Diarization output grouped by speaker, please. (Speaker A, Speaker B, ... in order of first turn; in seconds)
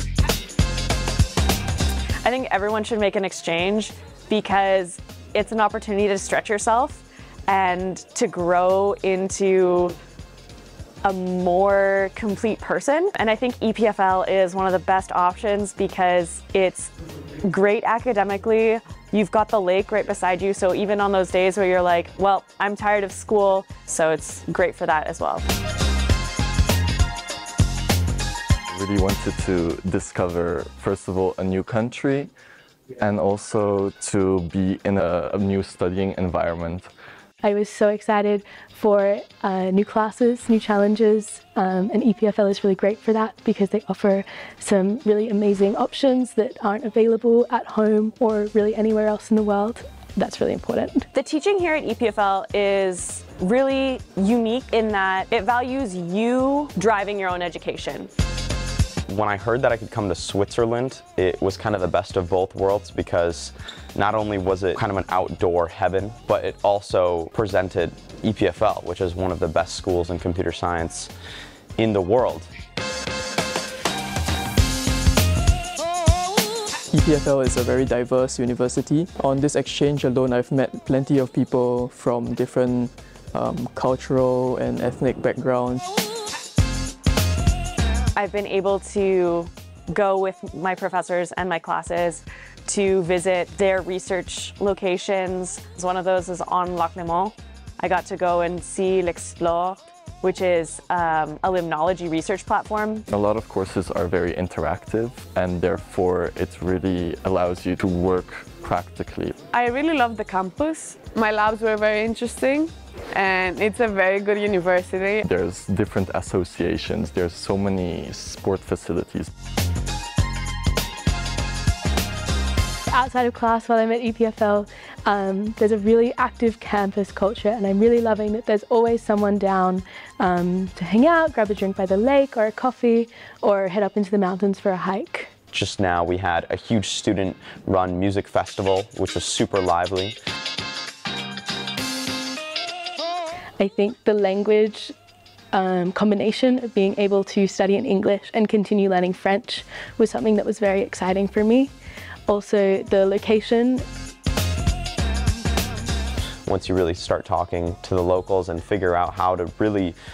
Speaker A: 2.2-9.9, 11.0-16.9, 17.4-25.4, 51.1-58.1, 88.2-103.0
Speaker B: 28.7-32.3, 32.9-36.9, 103.1-109.3, 115.2-119.3
Speaker C: 37.4-51.1, 122.9-135.3, 143.6-144.9, 145.5-151.7, 152.3-153.8
Speaker D: 59.1-71.1, 71.8-72.5, 135.5-140.2, 156.4-160.0
Speaker E: 76.9-85.8
Speaker F: 109.5-115.2